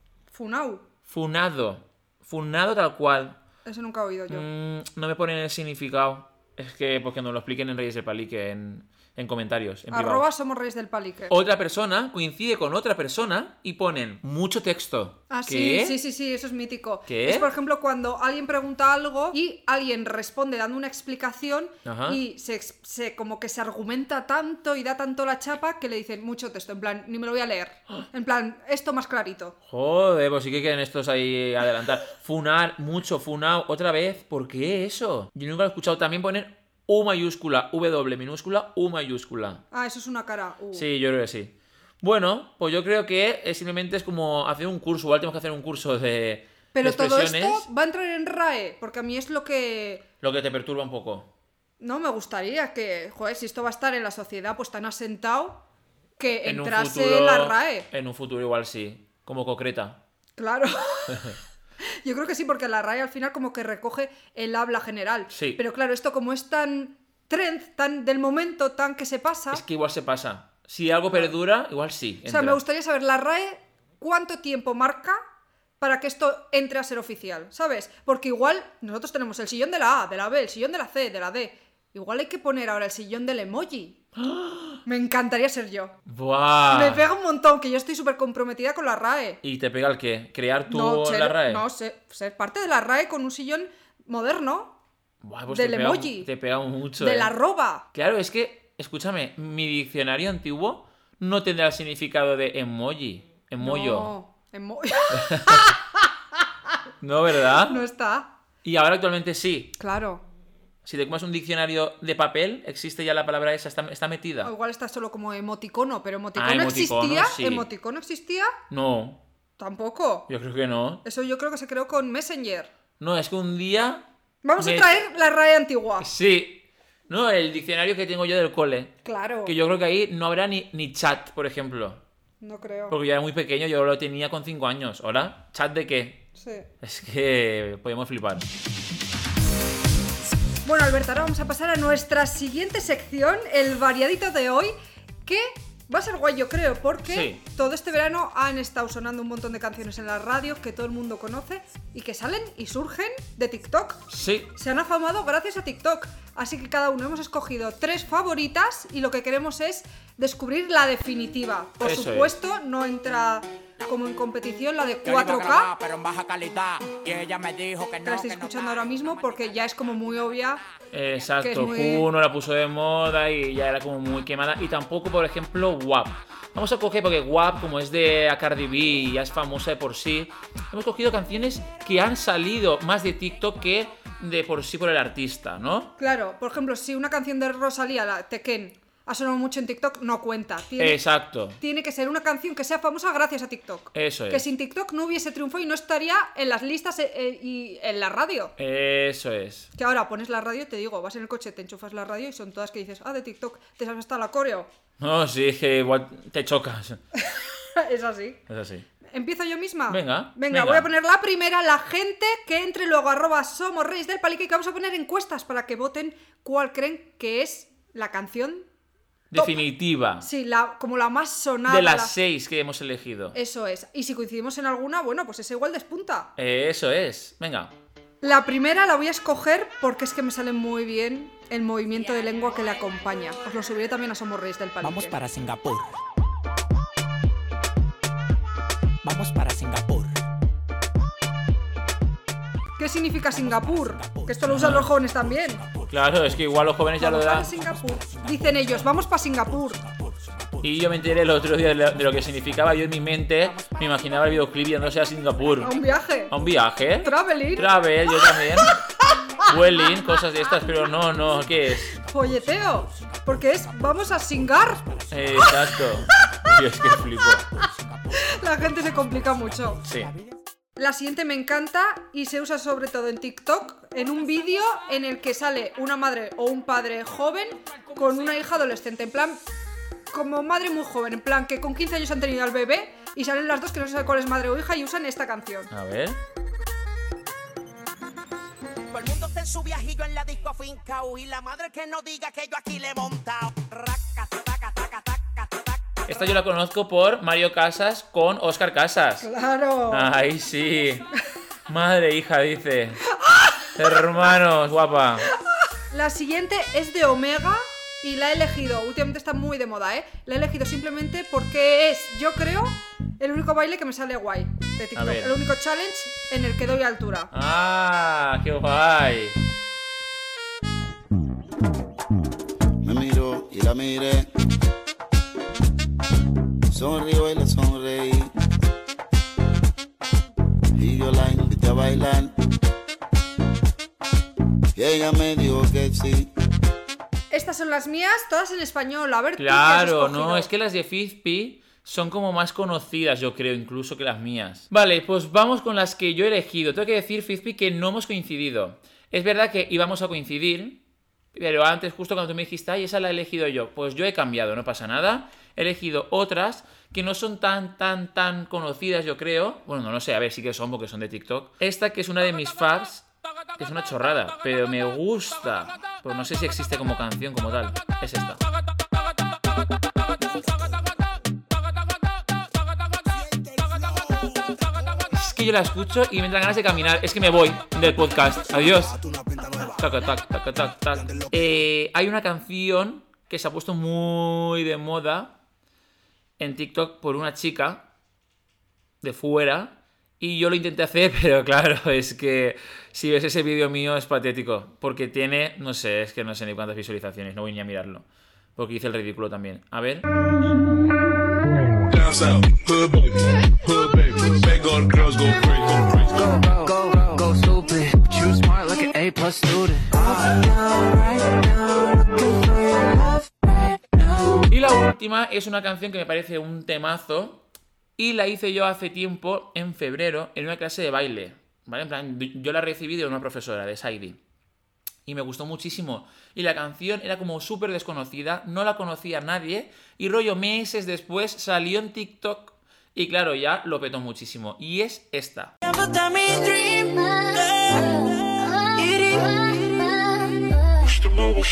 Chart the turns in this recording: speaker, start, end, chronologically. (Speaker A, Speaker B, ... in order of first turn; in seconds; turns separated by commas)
Speaker A: 0.3-0.8, Speaker B: 1.1-3.4, Speaker A: 3.7-4.5, Speaker B: 4.3-10.3, Speaker A: 9.9-11.3, Speaker B: 11.3-16.0, Speaker A: 15.3-29.6, Speaker B: 17.1-17.5, Speaker B: 21.9-22.2, Speaker B: 29.7-39.6, Speaker A: 39.7-40.9, Speaker B: 40.7-47.7, Speaker A: 46.7-50.0, Speaker B: 50.2-51.3, Speaker A: 51.8-55.6, Speaker A: 56.2-57.9, Speaker B: 56.4-60.0, Speaker A: 60.4-69.6, Speaker B: 61.1-61.4, Speaker B: 65.3-65.6, Speaker B: 69.5-72.6, Speaker A: 72.3-75.2, Speaker A: 75.8-84.0, Speaker B: 84.2-84.8, Speaker A: 84.9-86.0, Speaker B: 86.1-87.1, Speaker A: 86.7-89.4, Speaker B: 89.4-91.7, Speaker A: 90.7-94.8, Speaker B: 95.2-97.3, Speaker A: 95.5-96.3, Speaker A: 97.0-97.9, Speaker B: 97.9-104.1, Speaker A: 103.6-106.1, Speaker B: 105.1-105.7, Speaker B: 107.0-107.8, Speaker A: 107.6-108.3, Speaker B: 108.6-109.8, Speaker A: 109.8-110.2, Speaker B: 110.8-114.5, Speaker A: 114.4-118.5, Speaker B: 116.4-117.7, Speaker B: 118.7-119.2, Speaker A: 119.6-120.3, Speaker B: 120.3-121.0, Speaker A: 121.0-122.7, Speaker B: 123.0-124.1, Speaker A: 124.4-126.1, Speaker B: 124.6-125.0, Speaker B: 126.0-132.0, Speaker A: 129.1-129.6, Speaker A: 132.4-133.0, Speaker B: 132.9-136.3, Speaker A: 136.4-136.7, Speaker B: 136.8-138.5, Speaker A: 140.6-144.7, Speaker A: 145.3-165.7, Speaker B: 147.1-147.4, Speaker B: 154.1-154.5, Speaker B: 161.8-162.4, Speaker C: 165.1-169.4, Speaker A: 168.0-170.6, Speaker B: 170.9-185.9, Speaker A: 171.4-172.1, Speaker A: 186.0-191.0, Speaker B: 190.8-191.6, Speaker A: 191.6-198.5, Speaker B: 193.9-194.4, Speaker B: 198.6-199.7, Speaker A: 199.8-204.7, Speaker B: 205.0-207.0, Speaker A: 207.2-208.4, Speaker B: 208.5-208.9, Speaker A: 209.1-218.7, Speaker B: 209.9-210.9, Speaker B: 219.3-220.3, Speaker A: 220.2-222.1, Speaker B: 221.7-223.4, Speaker A: 223.3-226.3, Speaker B: 226.4-227.7, Speaker A: 228.2-235.2, Speaker C: 234.8-236.0, Speaker C: 239.0-240.2, Speaker A: 242.8-245.6, Speaker C: 243.8-244.5, Speaker B: 244.5-244.9, Speaker C: 245.6-245.8, Speaker B: 245.9-247.6, Speaker A: 247.0-249.8, Speaker C: 249.8-250.2, Speaker B: 250.6-255.8, Speaker A: 255.6-256.3, Speaker B: 256.3-258.8, Speaker A: 257.0-257.7, Speaker B: 259.4-262.0, Speaker A: 261.9-264.9, Speaker B: 265.1-267.5, Speaker A: 268.1-269.8, Speaker B: 269.8-270.1, Speaker A: 270.8-279.4, Speaker A: 280.1-285.7, Speaker B: 285.7-286.2, Speaker C: 288.9-296.3, Speaker B: 296.1-299.3, Speaker A: 299.2-300.1, Speaker B: 299.9-301.1, Speaker B: 301.7-303.0, Speaker A: 303.2-303.5, Speaker B: 303.8-305.3, Speaker A: 305.9-317.3, Speaker B: 315.0-315.4, Speaker B: 317.3-319.4, Speaker D: 322.8-324.3, Speaker D: 326.7-328.3, Speaker D: 330.8-332.3, Speaker D: 334.8-336.3, Speaker A: 337.3-340.5, Speaker B: 339.4-350.8, Speaker B: 351.3-363.1, Speaker B: 363.6-368.4, Speaker C: 373.1-374.6, Speaker B: 375.1-379.0, Speaker C: 379.4-379.7, Speaker B: 379.6-385.4, Speaker B: 386.4-387.9, Speaker B: 389.0-400.1, Speaker E: 401.9-407.2, Speaker F: 406.5-409.9, Speaker B: 414.5-417.4, Speaker B: 418.0-424.2, Speaker B: 425.1-435.6